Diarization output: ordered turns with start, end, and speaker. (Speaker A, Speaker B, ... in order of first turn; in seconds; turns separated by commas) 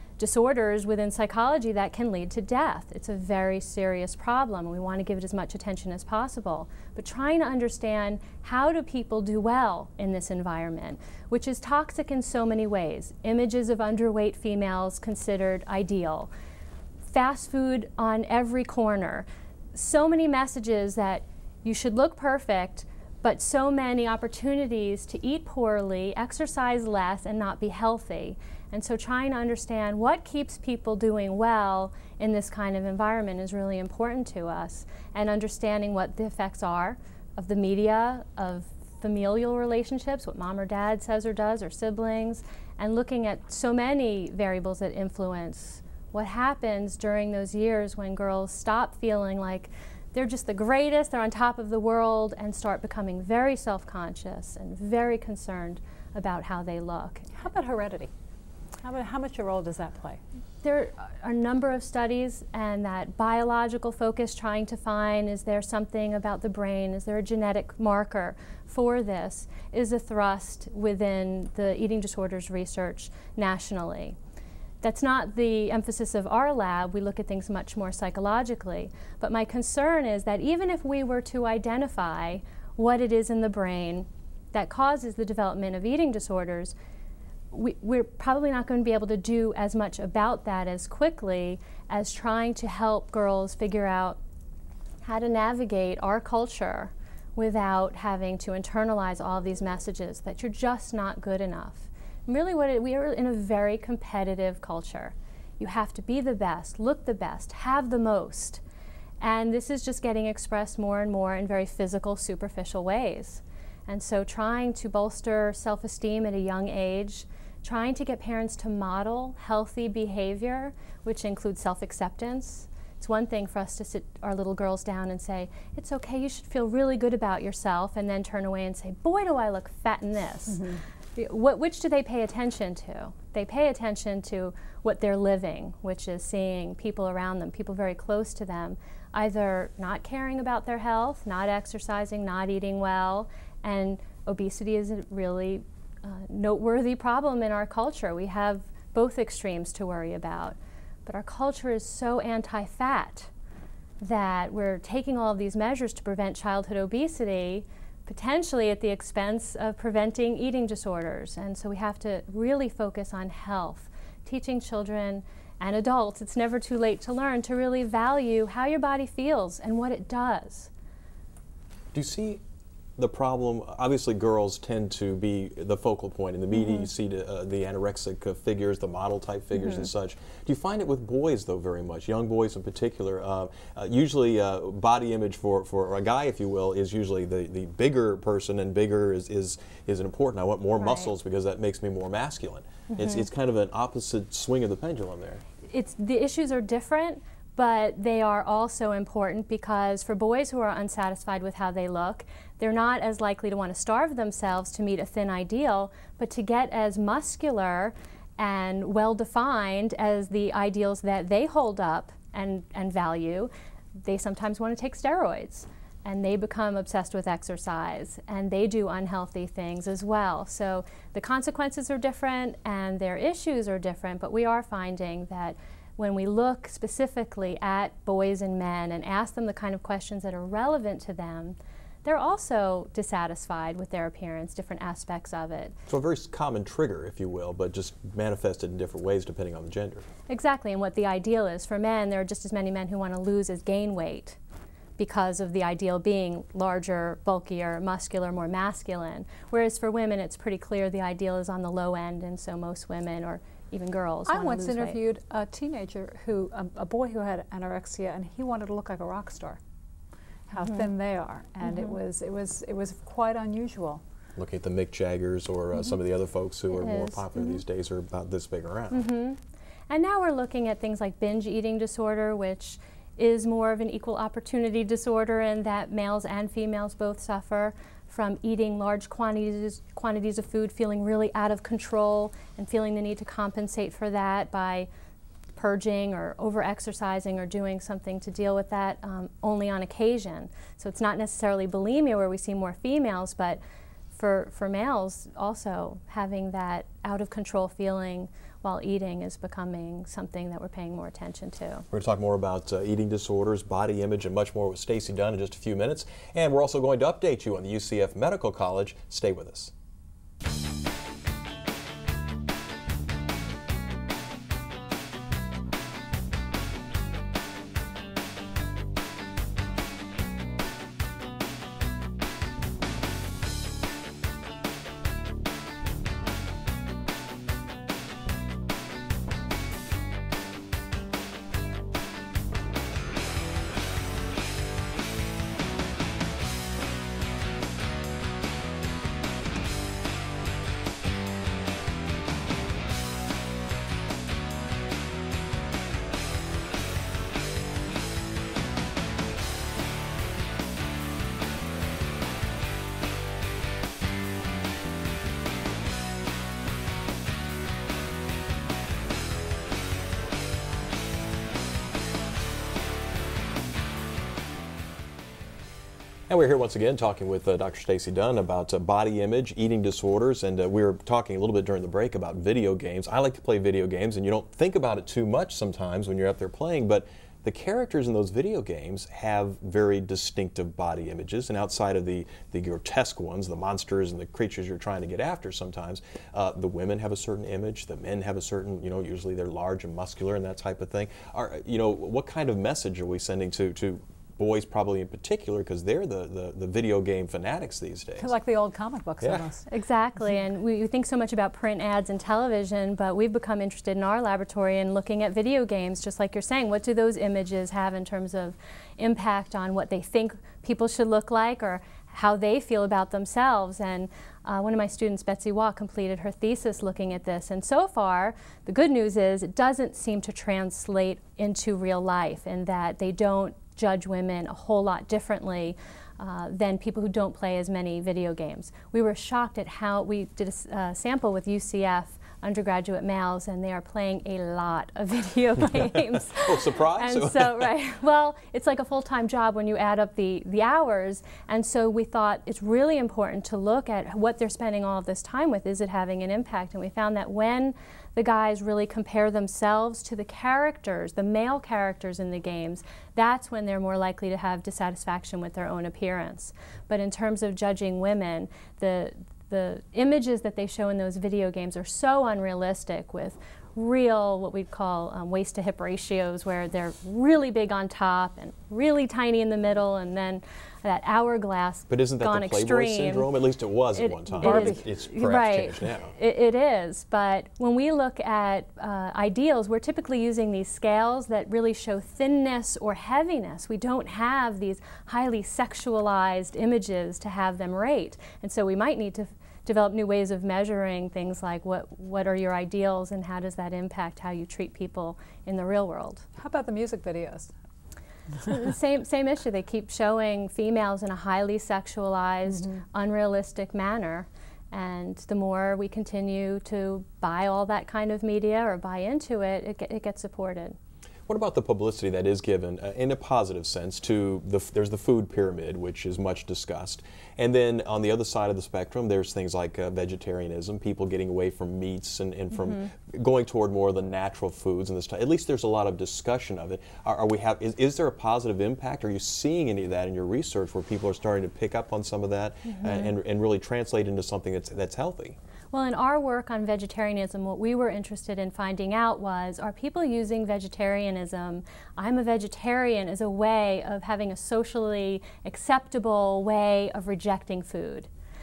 Speaker A: 0.2-16.3, Speaker A: 17.1-57.4, Speaker B: 57.3-58.1, Speaker B: 58.8-60.2, Speaker A: 60.6-74.2, Speaker A: 74.8-86.8, Speaker A: 87.5-94.2, Speaker A: 95.0-108.6, Speaker A: 109.2-130.7, Speaker B: 130.5-130.8, Speaker A: 131.2-153.3, Speaker A: 154.0-170.7, Speaker C: 171.9-172.4, Speaker C: 173.0-195.4, Speaker A: 176.5-176.9, Speaker A: 179.6-179.9, Speaker A: 190.8-191.1, Speaker A: 192.9-193.3, Speaker A: 195.7-235.7, Speaker C: 235.9-240.1, Speaker A: 240.3-244.4, Speaker A: 245.0-255.0, Speaker B: 254.3-259.6, Speaker B: 260.5-264.0, Speaker A: 261.6-262.0, Speaker C: 264.4-269.1, Speaker A: 266.7-267.6, Speaker A: 268.9-284.9, Speaker A: 285.6-293.6, Speaker A: 294.1-301.9, Speaker C: 301.9-309.7, Speaker C: 366.3-398.3, Speaker B: 398.2-399.6, Speaker C: 399.2-399.5, Speaker A: 399.7-473.3, Speaker C: 435.7-437.7, Speaker C: 471.9-476.2, Speaker A: 473.9-496.2, Speaker B: 474.4-474.8, Speaker B: 496.4-497.5, Speaker A: 498.5-510.8, Speaker B: 502.5-502.8, Speaker C: 511.3-535.4, Speaker A: 522.5-522.8, Speaker A: 532.7-533.1, Speaker A: 535.7-548.1